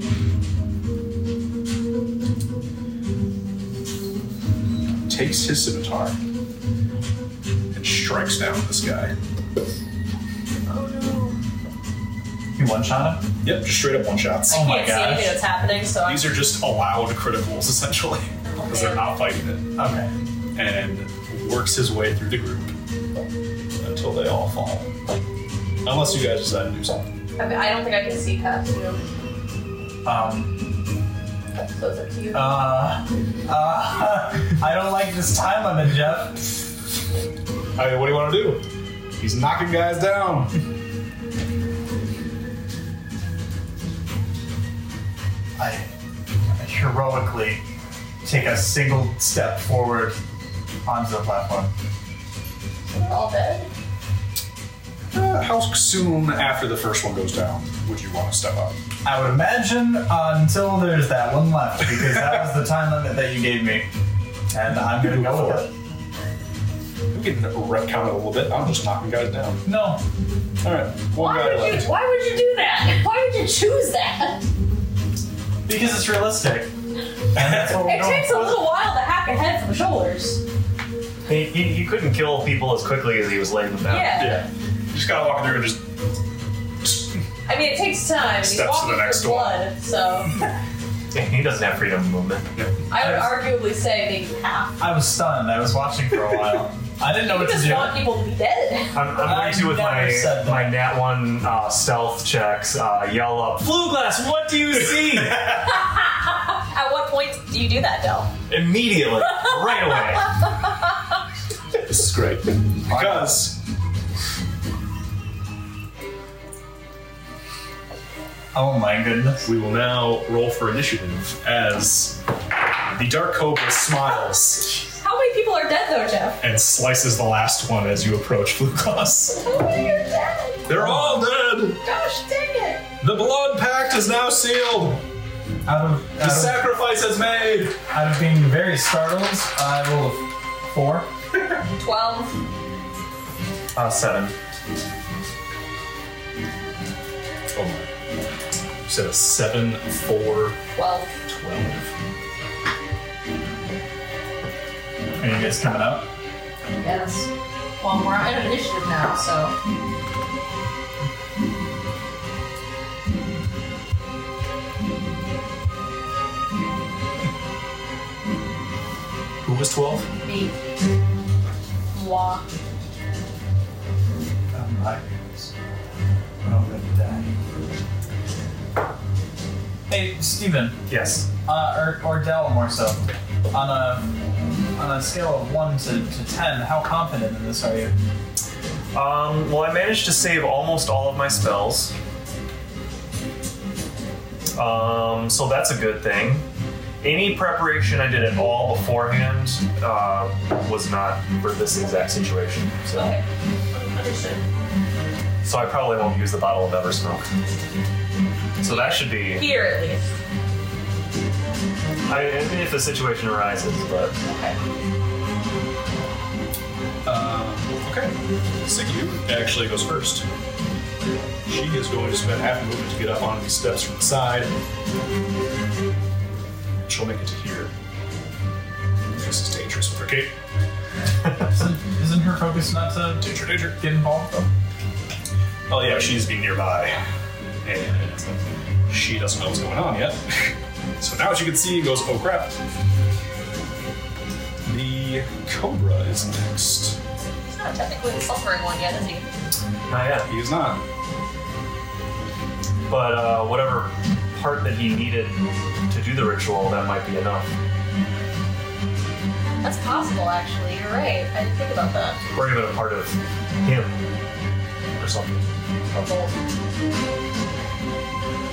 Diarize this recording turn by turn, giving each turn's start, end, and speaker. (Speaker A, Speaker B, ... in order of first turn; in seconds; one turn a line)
Speaker A: 5.1-6.2
Speaker A: 7.7-9.1
Speaker B: 10.7-11.4
Speaker C: 12.6-13.2
Speaker A: 13.4-14.7
Speaker C: 14.5-15.4
Speaker B: 14.5-16.3
Speaker A: 16.0-19.7
Speaker B: 18.4-19.1
Speaker C: 19.8-20.1
Speaker A: 20.5-22.7
Speaker A: 23.8-24.9
Speaker A: 25.8-27.0
Speaker B: 27.4-29.0
Speaker C: 30.0-30.6
Speaker B: 31.8-32.6
Speaker C: 32.3-36.5
Speaker A: 37.8-38.6
Speaker A: 39.2-40.5
Speaker C: 45.6-45.9
Speaker C: 46.5-47.6
Speaker C: 48.2-50.2
Speaker C: 50.8-51.7
Speaker B: 52.9-53.7
Speaker A: 55.1-58.8
Speaker C: 59.0-63.9
Speaker C: 64.5-65.7
Speaker A: 64.8-65.7
Speaker A: 67.1-69.6
Speaker C: 69.6-70.0
Speaker A: 70.6-71.9
Speaker B: 71.2-74.4
Speaker C: 75.7-76.7
Speaker C: 77.3-78.6
Speaker A: 77.3-77.8
Speaker B: 77.8-80.4
Speaker D: 81.2-84.2
Speaker B: 83.9-84.5
Speaker A: 84.1-85.8
Speaker A: 86.8-87.2
Speaker B: 87.5-90.3
Speaker A: 88.4-89.6
Speaker D: 91.1-92.5
Speaker B: 92.9-94.7
Speaker C: 92.9-93.4
Speaker C: 94.8-98.0
Speaker B: 97.2-99.0
Speaker D: 98.9-105.8
Speaker C: 99.2-100.8
Speaker B: 105.9-108.3
Speaker D: 108.5-110.3
Speaker B: 109.2-109.5
Speaker A: 111.8-113.6
Speaker C: 112.9-113.4
Speaker C: 118.5-119.5
Speaker A: 119.4-122.2
Speaker A: 122.9-124.8
Speaker B: 125.0-126.4
Speaker A: 126.4-129.4
Speaker B: 129.3-130.7
Speaker A: 130.7-131.8
Speaker C: 130.7-131.3
Speaker B: 131.8-132.8
Speaker A: 133.0-135.0
Speaker C: 135.6-136.7
Speaker A: 136.2-137.8
Speaker C: 137.9-141.1
Speaker B: 141.8-142.3
Speaker D: 143.7-144.3
Speaker A: 147.5-147.9
Speaker A: 148.9-150.6
Speaker B: 150.7-151.1
Speaker A: 151.2-151.9
Speaker C: 155.2-156.1
Speaker B: 156.8-157.3
Speaker B: 157.8-159.5
Speaker A: 169.4-170.1
Speaker B: 170.2-170.5
Speaker B: 171.9-172.4
Speaker C: 174.5-175.5
Speaker C: 176.4-177.3
Speaker C: 179.9-180.8
Speaker D: 180.9-181.3
Speaker C: 181.4-184.1
Speaker C: 184.7-187.9
Speaker D: 188.9-191.9
Speaker D: 194.5-196.4
Speaker D: 197.0-203.1
Speaker B: 202.9-204.4
Speaker D: 205.4-207.3
Speaker D: 208.6-209.4
Speaker B: 208.6-210.0
Speaker D: 212.1-214.1
Speaker B: 214.2-214.6
Speaker A: 217.0-220.2
Speaker A: 221.4-224.5
Speaker A: 226.8-227.7
Speaker A: 229.1-230.3
Speaker C: 231.5-234.5
Speaker A: 233.2-233.8
Speaker A: 235.7-237.0
Speaker A: 237.6-242.5
Speaker A: 244.6-247.0
Speaker B: 247.5-249.2
Speaker D: 249.9-250.3
Speaker A: 250.3-250.8
Speaker D: 252.9-257.5
Speaker B: 259.6-262.2
Speaker D: 262.3-264.1
Speaker D: 265.0-265.5
Speaker B: 265.9-266.4